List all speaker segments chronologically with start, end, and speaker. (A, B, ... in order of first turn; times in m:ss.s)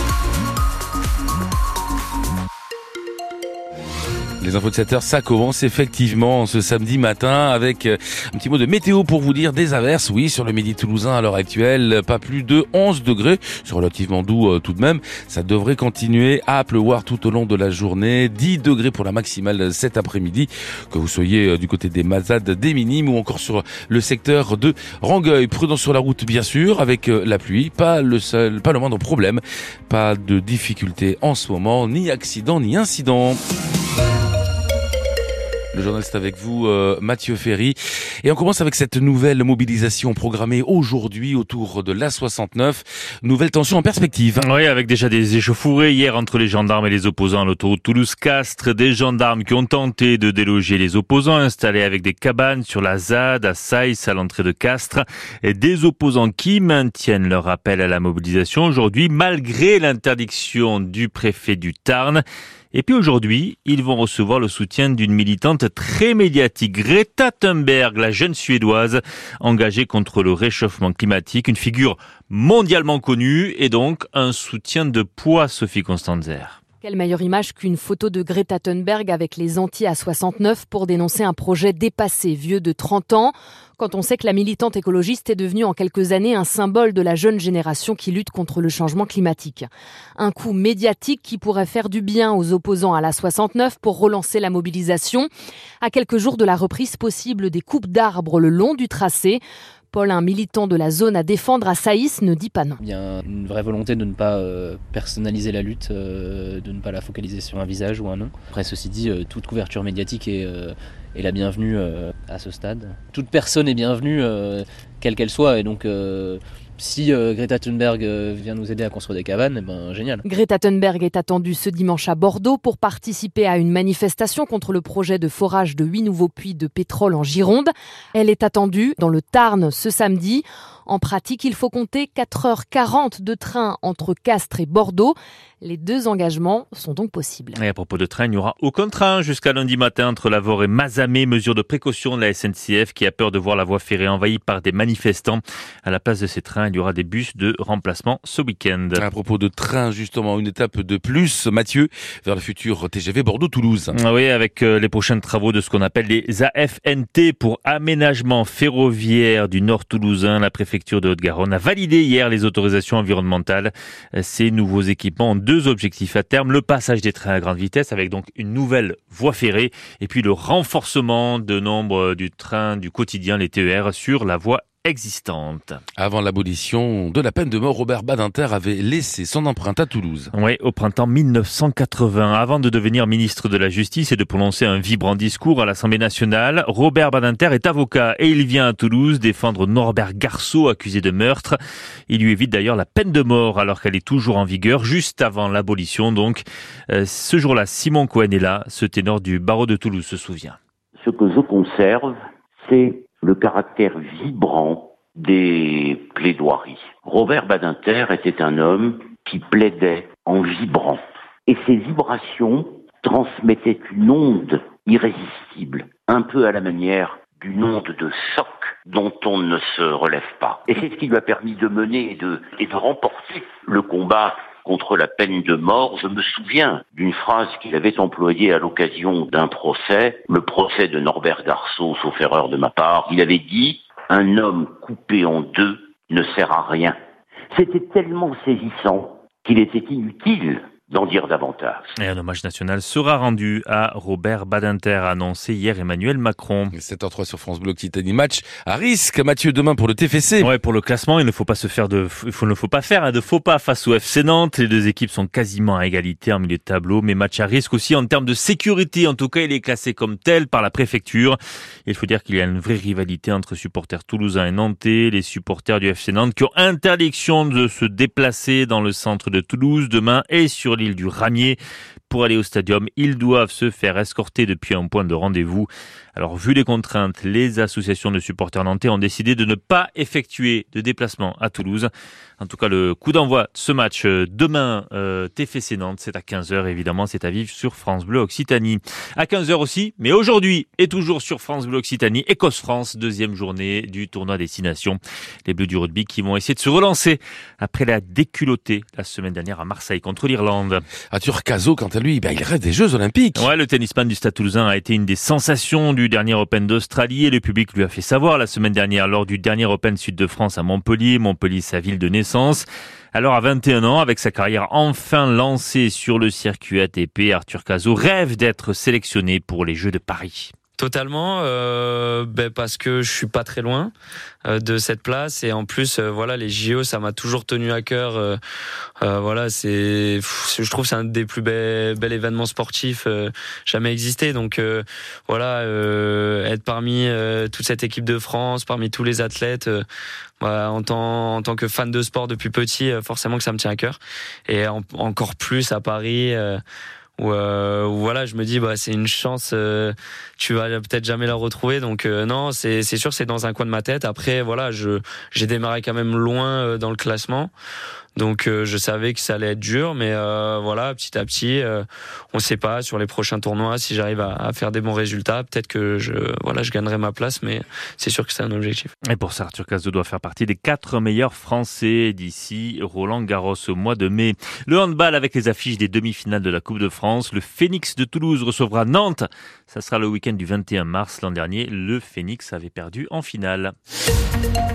0:04.4-0:33.4 A
0:35.7-0:44.4 A
0:44.4-1:16.6 B
1:16.8-1:35.3 C
1:35.8-1:42.8 C
1:42.8-2:00.2 D
2:00.2-2:17.6 C
2:17.5-2:29.0 B
2:28.9-2:33.9 A
2:34.0-2:55.8 B
2:56.0-3:00.3 A
3:00.3-3:11.6 B
3:12.1-3:20.6 B
3:21.0-3:57.0 E
3:57.5-4:01.9 E
4:02.0-4:06.7 B
4:06.7-4:10.5 A
4:10.4-5:00.8 B
5:01.1-5:03.5 A
5:03.3-5:20.5 B
5:20.8-5:23.9 F
5:24.4-5:28.4 F
5:29.0-5:39.8 F
5:40.4-5:46.6 F
5:47.2-5:57.5 F
5:58.2-6:08.9 F
6:09.1-6:23.7 B